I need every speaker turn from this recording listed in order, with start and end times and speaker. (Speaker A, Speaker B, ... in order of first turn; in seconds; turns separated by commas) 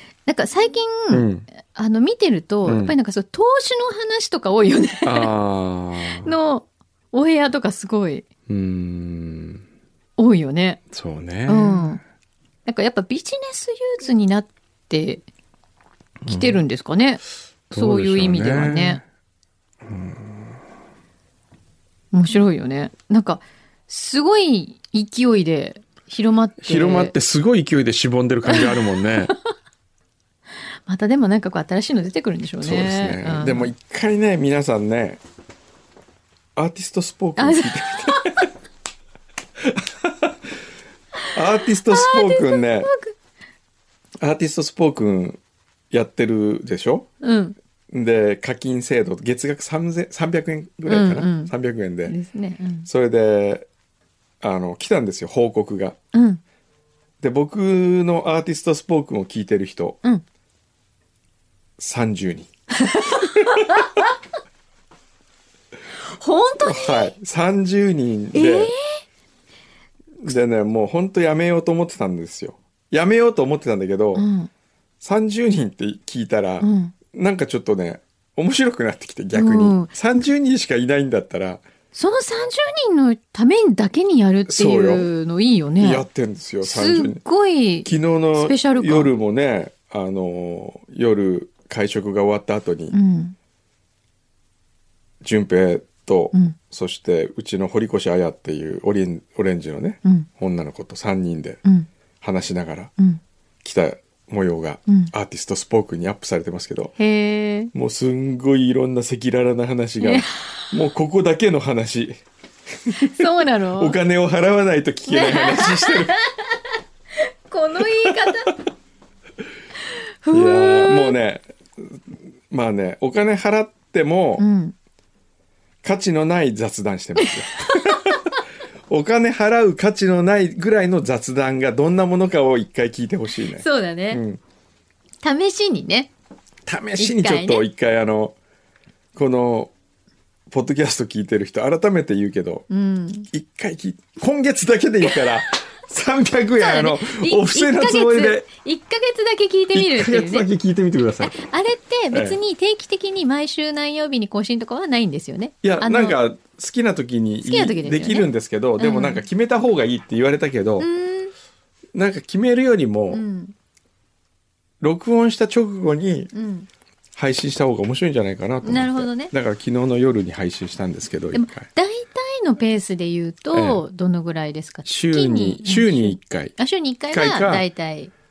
Speaker A: 0.3-5.3, Speaker B: 1.1-1.4, Speaker B: 2.6-2.9, Speaker B: 5.0-6.3, Speaker A: 6.2-8.2, Speaker B: 8.5-9.6, Speaker A: 10.2-10.8, Speaker B: 10.9-12.0, Speaker A: 11.5-12.0, Speaker A: 12.7-15.2, Speaker B: 16.2-16.6, Speaker A: 16.3-19.0, Speaker B: 17.7-19.0, Speaker B: 19.8-20.6, Speaker A: 22.1-27.1, Speaker B: 26.6-29.3, Speaker A: 28.5-28.8, Speaker A: 30.9-33.7, Speaker B: 32.6-35.2, Speaker B: 36.5-38.5, Speaker A: 37.4-38.5, Speaker B: 39.6-40.5, Speaker B: 41.3-42.9, Speaker A: 41.8-43.1, Speaker B: 44.2-45.4, Speaker B: 45.9-47.1, Speaker A: 47.2-47.5, Speaker B: 47.9-52.1, Speaker A: 50.9-51.5, Speaker A: 52.1-52.9, Speaker B: 52.9-53.7, Speaker B: 54.4-56.0, Speaker A: 56.1-56.4, Speaker B: 57.2-60.0, Speaker B: 61.8-62.5, Speaker A: 62.8-64.1, Speaker A: 66.0-67.1, Speaker B: 66.6-68.7, Speaker A: 68.3-69.0, Speaker B: 70.2-74.3, Speaker A: 74.1-74.5, Speaker B: 75.0-81.6, Speaker A: 76.6-76.9, Speaker A: 79.3-79.9, Speaker A: 81.9-86.0, Speaker B: 84.5-85.1, Speaker B: 85.8-87.2, Speaker A: 86.6-89.1, Speaker B: 87.8-93.0, Speaker A: 92.9-93.3, Speaker B: 95.2-101.6, Speaker B: 102.2-102.9, Speaker B: 103.6-106.9, Speaker A: 104.9-105.1, Speaker A: 107.0-107.7, Speaker B: 107.7-112.2, Speaker A: 110.0-110.7, Speaker B: 112.8-116.1, Speaker A: 112.9-114.0, Speaker A: 115.1-116.6, Speaker A: 117.2-118.5, Speaker B: 118.0-118.3, Speaker A: 120.2-121.2, Speaker B: 120.3-124.4, Speaker A: 124.4-124.7, Speaker B: 125.8-128.2, Speaker A: 127.5-128.2, Speaker B: 128.9-134.4, Speaker A: 133.6-134.2, Speaker A: 135.2-136.1, Speaker B: 136.7-138.3, Speaker A: 137.0-137.6, Speaker B: 139.1-139.7, Speaker B: 140.5-142.7, Speaker A: 142.7-143.3, Speaker B: 143.3-148.4, Speaker A: 146.6-150.4, Speaker B: 149.7-151.3, Speaker A: 151.2-156.2, Speaker B: 152.1-152.4, Speaker B: 155.6-160.9, Speaker A: 157.4-159.2, Speaker A: 160.8-161.3, Speaker B: 161.9-163.2, Speaker A: 163.1-163.5, Speaker B: 164.8-166.3, Speaker A: 166.3-166.7, Speaker B: 167.2-171.7, Speaker A: 168.6-169.3, Speaker A: 171.3-178.1, Speaker B: 173.5-173.8, Speaker B: 174.8-176.5, Speaker B: 177.1-177.7